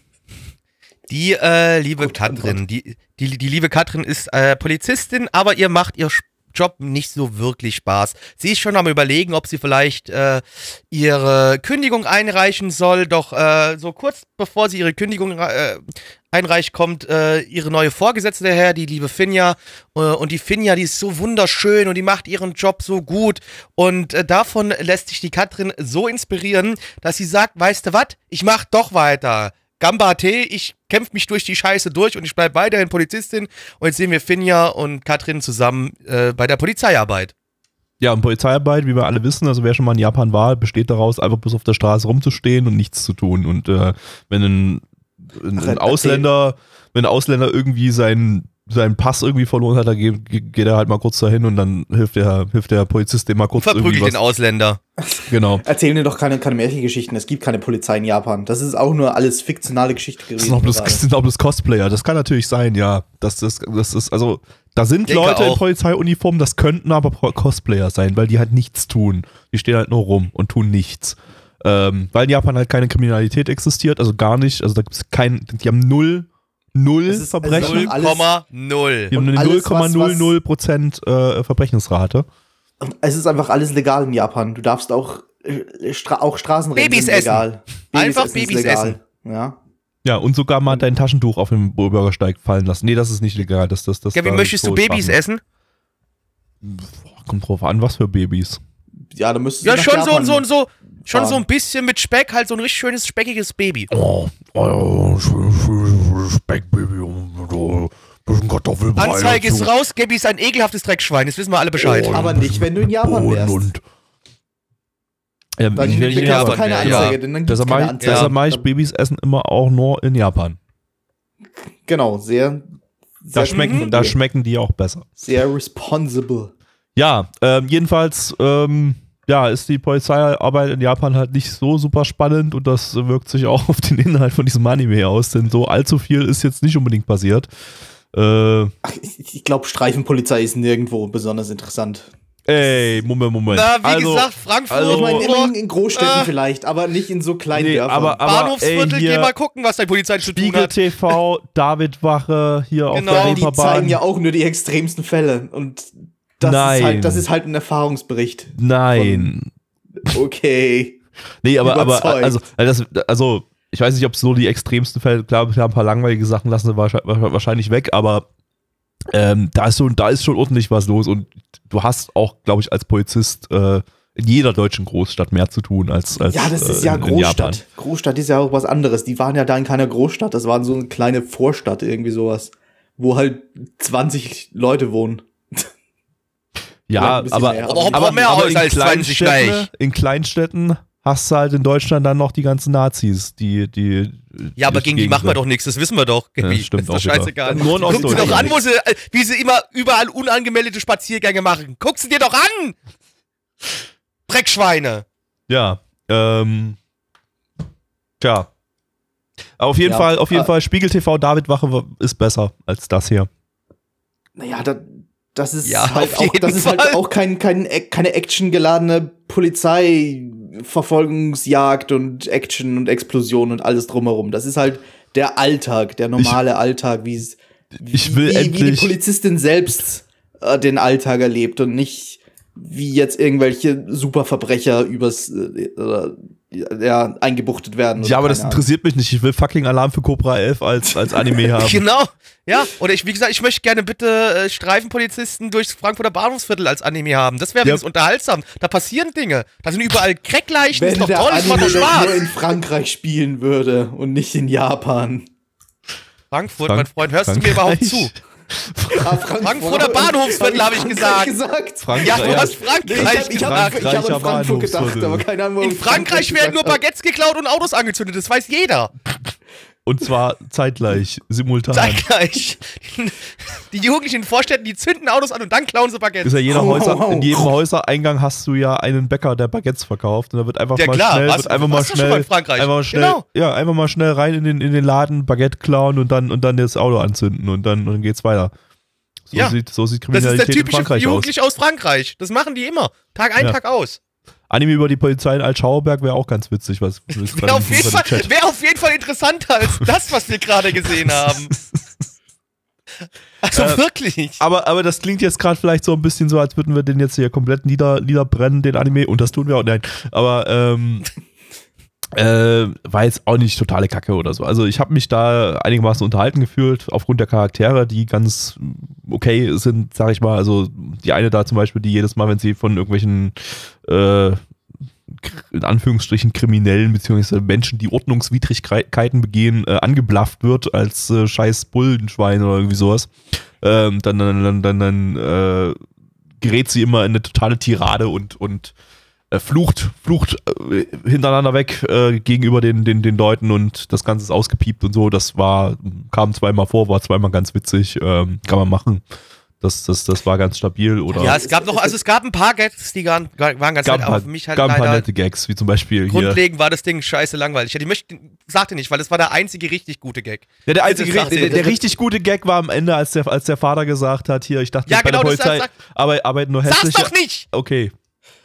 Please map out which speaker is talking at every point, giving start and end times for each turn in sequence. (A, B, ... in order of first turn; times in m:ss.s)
0:01.1-0:37.3 A
0:38.0-0:54.2 B
0:45.6-0:46.2 C
0:53.6-0:54.8 A
0:55.0-1:01.0 C
0:55.3-0:55.6 B
1:00.4-1:17.9 B
1:05.1-1:05.6 A
1:17.1-1:18.3 C
1:17.6-1:19.1 A
1:19.1-1:22.3 B
1:19.1-1:20.3 C
1:22.8-1:29.6 C
1:26.8-1:29.0 A
1:30.0-1:35.2 B
1:34.1-1:35.4 A
1:36.6-1:38.6 B
1:39.1-1:40.4 C
1:39.6-1:43.9 A
1:41.0-1:41.4 C
1:43.9-1:49.7 B
1:49.0-1:52.2 A
1:51.8-1:53.8 B
1:52.1-1:53.6 C
1:55.6-2:00.6 B
1:55.7-1:58.6 C
1:55.8-1:57.2 A
1:58.0-1:58.3 A
2:01.8-2:02.6 C
2:03.2-2:04.2 C
2:03.3-2:05.1 B
2:03.5-2:03.9 A
2:05.2-2:06.5 C
2:07.0-2:17.5 B
2:18.1-2:18.7 B
2:18.8-2:23.0 C
2:22.4-2:25.3 B
2:23.5-2:26.3 A
2:24.9-2:28.2 C
2:27.5-2:29.3 B
2:28.2-2:30.7 A
2:30.2-2:34.0 B
2:32.9-2:33.4 A
2:33.1-2:39.3 C
2:36.4-2:37.2 B
2:38.5-2:39.5 B
2:40.0-2:41.0 C
2:41.4-2:48.2 B
2:41.6-2:42.4 C
2:49.1-2:57.6 B
2:56.2-3:05.7 C
3:06.9-3:15.4 B
3:07.0-3:08.4 C
3:07.6-3:09.7 A
3:14.6-3:22.8 A
3:16.4-3:18.6 B
3:17.5-3:18.6 C
3:24.3-3:25.0 A
3:25.5-3:26.8 B
3:28.2-3:28.5 B
3:29.6-3:33.3 B
3:29.8-3:30.5 C
3:34.4-3:58.6 C
3:35.6-3:37.0 A
3:47.9-3:48.9 B
3:58.0-4:01.8 B
4:01.6-4:12.2 A
4:10.7-4:15.3 C
4:16.3-4:18.1 A
4:16.6-4:19.2 B
4:18.9-4:26.8 C
4:19.4-4:21.3 A
4:21.8-4:25.2 B
4:22.0-4:24.0 A
4:25.6-4:28.9 A
4:29.8-4:32.0 B
4:31.7-4:36.4 A
4:36.2-4:48.5 B
4:36.5-4:37.5 C
4:40.8-4:43.2 A
4:49.3-4:51.3 B
4:50.1-4:54.0 A
4:54.5-4:58.3 B
4:57.3-5:01.5 A
5:00.8-5:02.0 B
5:03.4-5:04.4 A
5:03.5-5:03.8 B
5:04.4-5:11.0 B
5:12.1-5:24.4 B
5:25.1-5:35.8 B
5:36.4-5:38.7 B
5:39.3-5:49.0 B
5:49.6-5:51.4 B
5:51.1-5:52.0 C
5:51.2-5:55.1 A
5:53.8-5:56.4 B
5:56.1-6:01.8 A
6:00.6-6:07.9 B
6:04.9-6:05.7 A
6:06.6-6:07.4 A